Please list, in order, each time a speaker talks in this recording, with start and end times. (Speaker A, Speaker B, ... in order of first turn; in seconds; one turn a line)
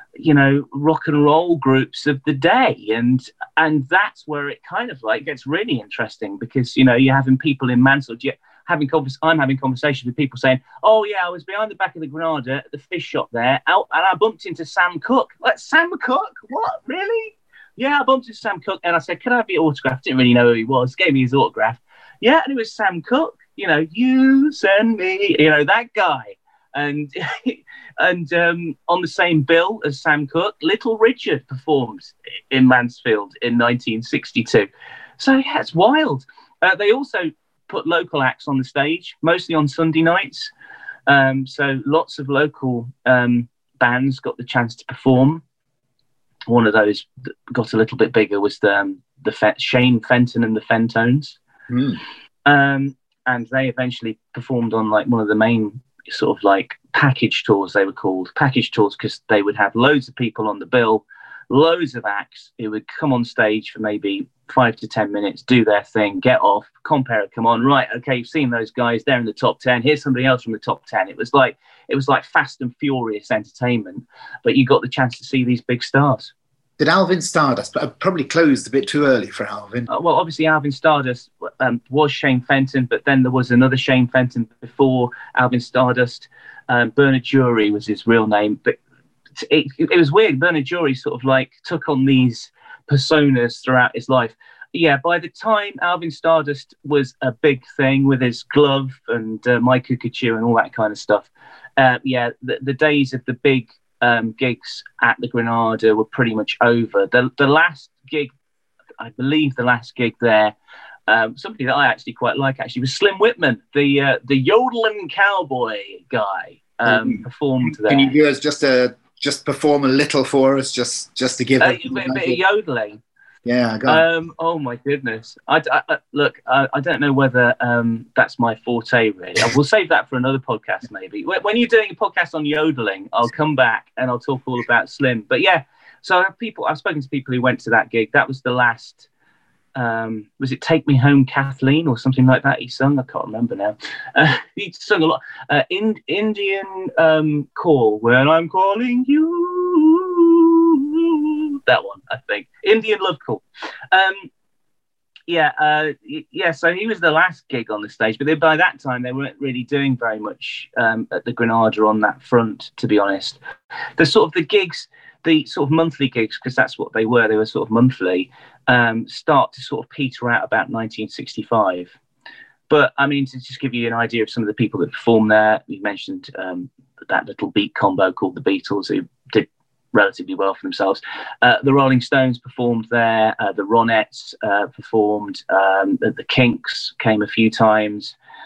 Speaker A: 0.2-40.5
Speaker A: 41.1-45.4
Speaker A: 46.5-51.4
Speaker B: 51.7-52.0
Speaker A: 52.5-76.3
Speaker B: 76.8-79.9
Speaker A: 79.9-88.8
Speaker A: 89.4-108.3
Speaker A: 109.0-110.5
Speaker A: 111.1-118.1
Speaker B: 116.9-122.4
Speaker A: 121.6-123.0
Speaker B: 123.5-124.0
Speaker A: 123.9-139.1
Speaker A: 139.8-154.3
Speaker A: 155.3-163.4
Speaker A: 164.0-171.9
Speaker A: 172.7-188.2